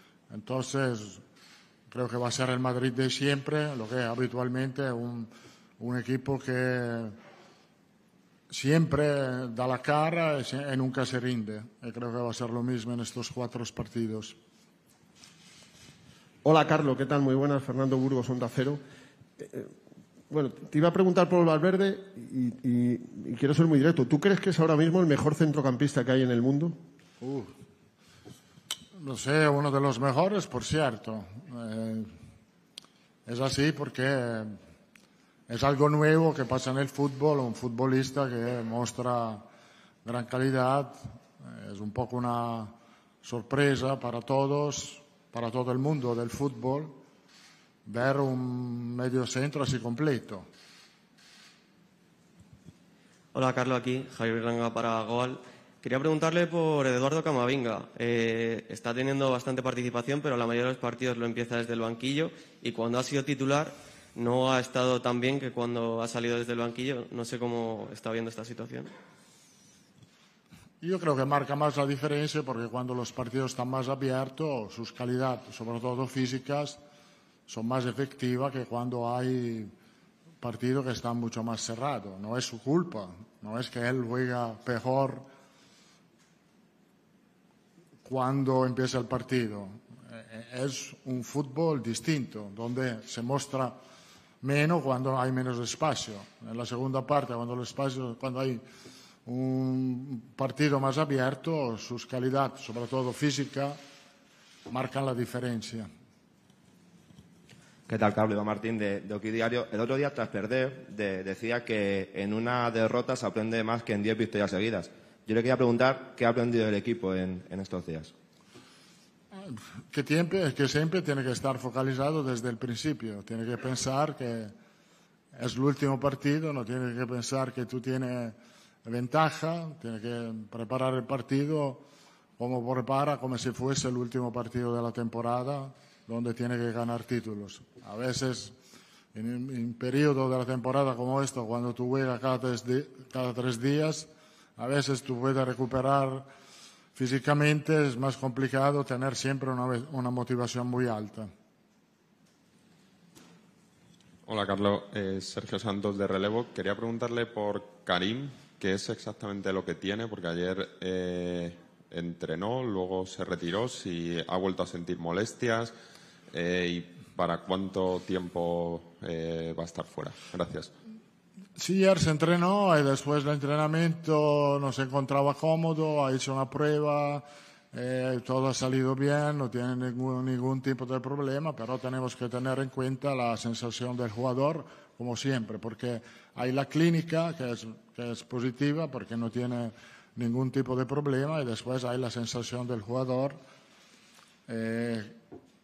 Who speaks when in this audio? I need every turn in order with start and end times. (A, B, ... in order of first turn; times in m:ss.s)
0:00.3-0:01.2 A
0:01.9-0:07.1 A
0:08.5-0:14.4 A
0:16.4-0:18.8 B
0:19.4-0:19.7 B
0:20.3-0:26.7 B
0:27.2-0:27.5 A
0:29.0-0:32.1 A
0:33.3-0:34.6 A
0:35.5-0:39.4 A
0:40.0-0:46.9 A
0:47.8-0:50.5 A
0:53.3-1:08.9 C
1:10.8-1:16.8 A
1:17.5-1:19.7 A
1:20.4-1:25.2 A
1:28.0-1:33.8 A
1:34.4-1:38.6 A
1:39.2-1:43.8 A
1:44.7-1:45.9 A
1:47.9-1:58.1 D
1:59.3-2:04.5 A
2:05.4-2:11.8 A
2:12.4-2:18.5 A
2:19.1-2:26.3 A
2:26.9-2:31.3 A
2:34.2-2:45.7 E
2:46.3-2:50.7 E
2:51.6-3:13.4 A
3:14.5-3:15.1 A